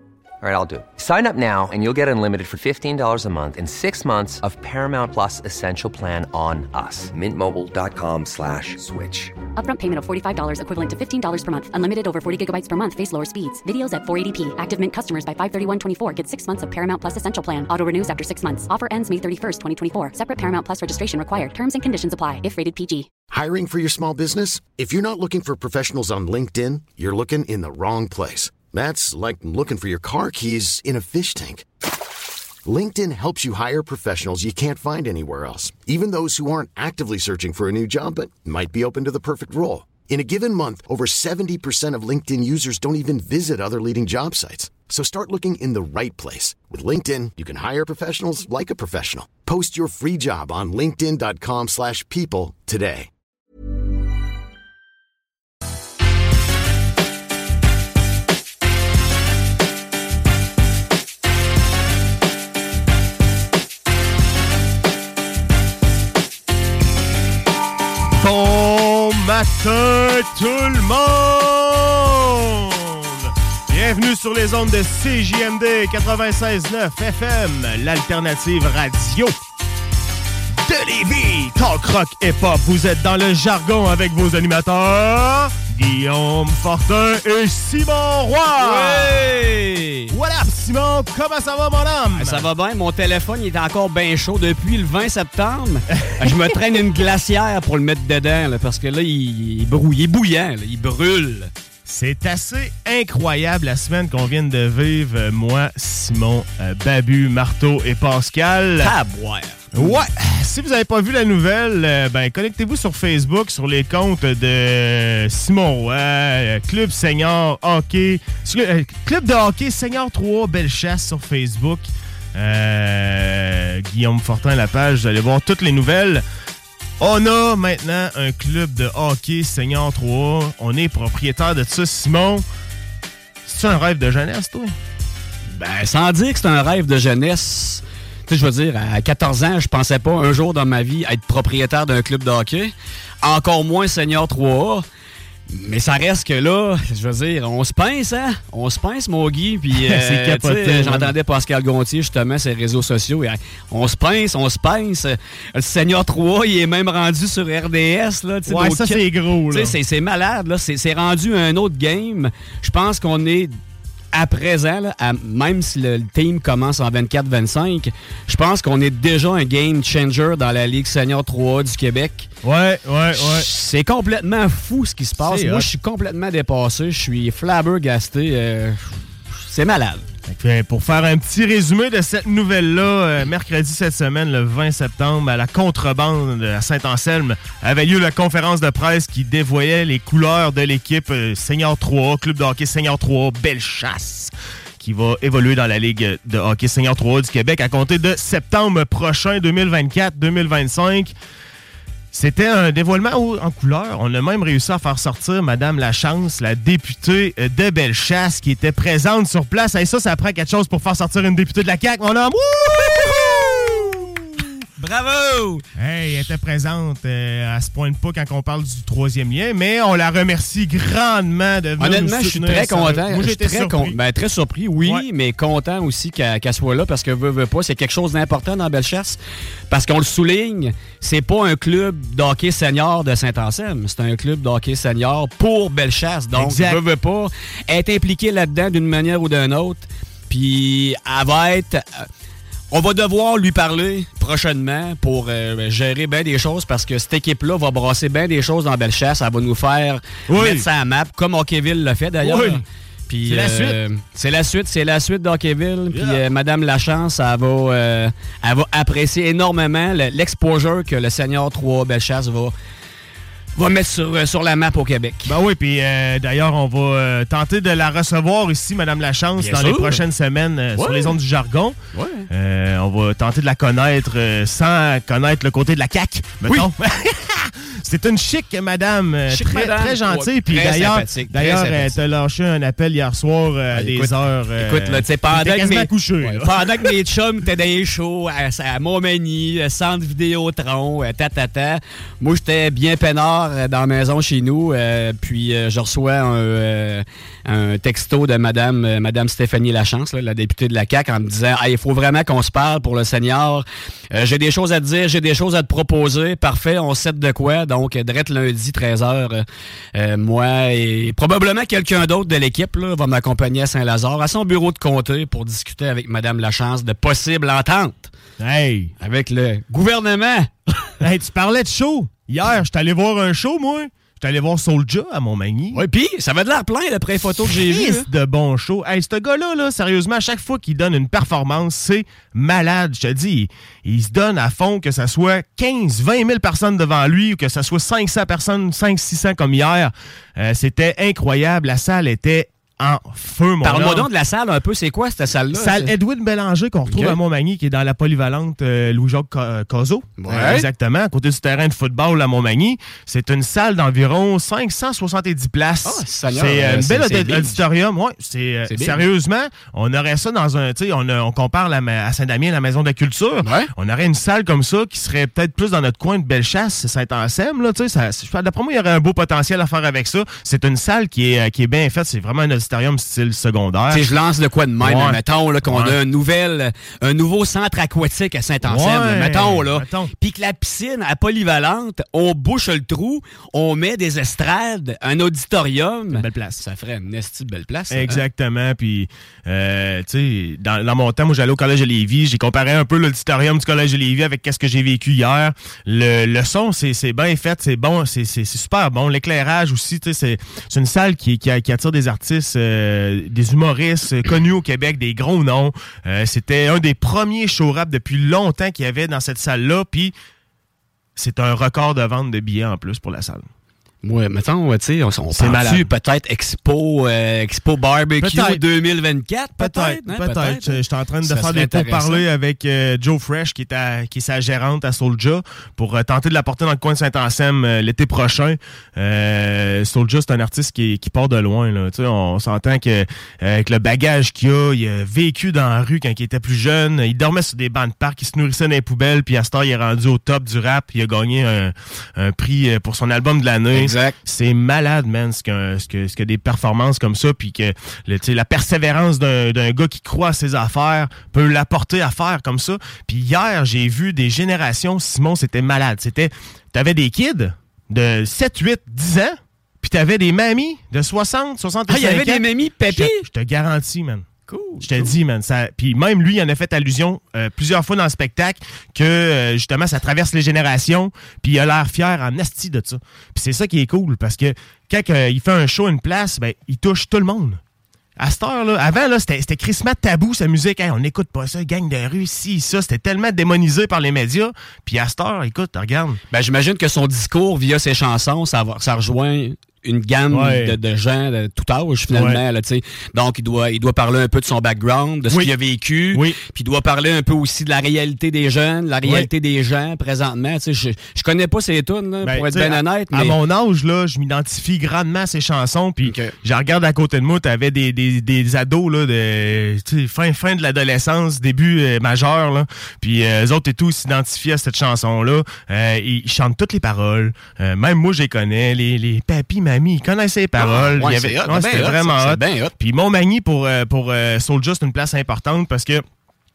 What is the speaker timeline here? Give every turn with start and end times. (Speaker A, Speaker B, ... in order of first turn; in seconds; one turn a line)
Speaker A: 0.4-9.4
Speaker B: 9.5-23.1
Speaker C: 23.3-31.6
Speaker C: 32.6-53.1
Speaker D: 68.2-79.3
Speaker D: 80.6-89.3
Speaker E: 88.6-90.1
Speaker D: 90.1-92.5
Speaker E: 92.1-101.5
Speaker D: 96.0-96.4
Speaker D: 101.8-108.9
Speaker E: 108.8-110.0
Speaker D: 109.7-126.2
Speaker D: 127.0-132.4
Speaker D: 133.4-134.7
Speaker E: 135.5-144.8
Speaker E: 145.5-163.6
Speaker D: 149.7-151.1
Speaker D: 158.5-159.8
Speaker E: 164.1-172.3
Speaker D: 172.4-173.4
Speaker E: 173.1-180.0
Speaker D: 175.2-175.7
Speaker D: 180.3-201.1
Speaker D: 202.1-214.5
Speaker E: 214.8-215.6
Speaker D: 215.8-224.0
Speaker E: 221.8-229.2
Speaker E: 229.7-242.1
Speaker D: 236.4-236.8
Speaker E: 242.7-262.5
Speaker D: 250.3-250.6
Speaker D: 252.2-252.6
Speaker D: 253.3-253.8
Speaker D: 255.9-256.2
Speaker E: 263.6-265.4
Speaker D: 265.2-271.8
Speaker E: 269.4-270.0
Speaker E: 270.8-271.1
Speaker E: 271.9-272.3
Speaker D: 272.3-286.9
Speaker E: 279.3-281.9
Speaker E: 283.7-318.1
Speaker D: 318.4-318.9
Speaker E: 319.0-320.5
Speaker D: 321.0-325.8
Speaker E: 325.7-328.1
Speaker D: 327.5-344.1
Speaker E: 343.6-345.9
Speaker D: 345.5-374.1
Speaker E: 346.9-347.2
Speaker E: 350.2-350.7
Speaker E: 355.8-357.6
Speaker E: 358.7-359.0
Speaker E: 363.4-363.7
Speaker E: 373.9-388.2
Speaker D: 374.8-376.0
Speaker D: 378.6-380.1
Speaker D: 386.1-386.6
Speaker D: 387.9-410.1
Speaker D: 411.2-413.4
Speaker E: 414.0-422.2
Speaker D: 415.3-415.9
Speaker D: 418.2-418.6
Speaker D: 419.6-464.2
Speaker E: 443.7-444.2
Speaker E: 461.9-463.2
Speaker E: 464.5-465.1
Speaker D: 464.8-477.6
Speaker D: 478.2-486.2
Speaker E: 486.3-503.4
Speaker D: 490.3-490.7
Speaker D: 492.1-492.4
Speaker D: 496.1-496.4
Speaker D: 502.2-526.0
Speaker E: 506.0-506.4
Speaker E: 520.6-522.7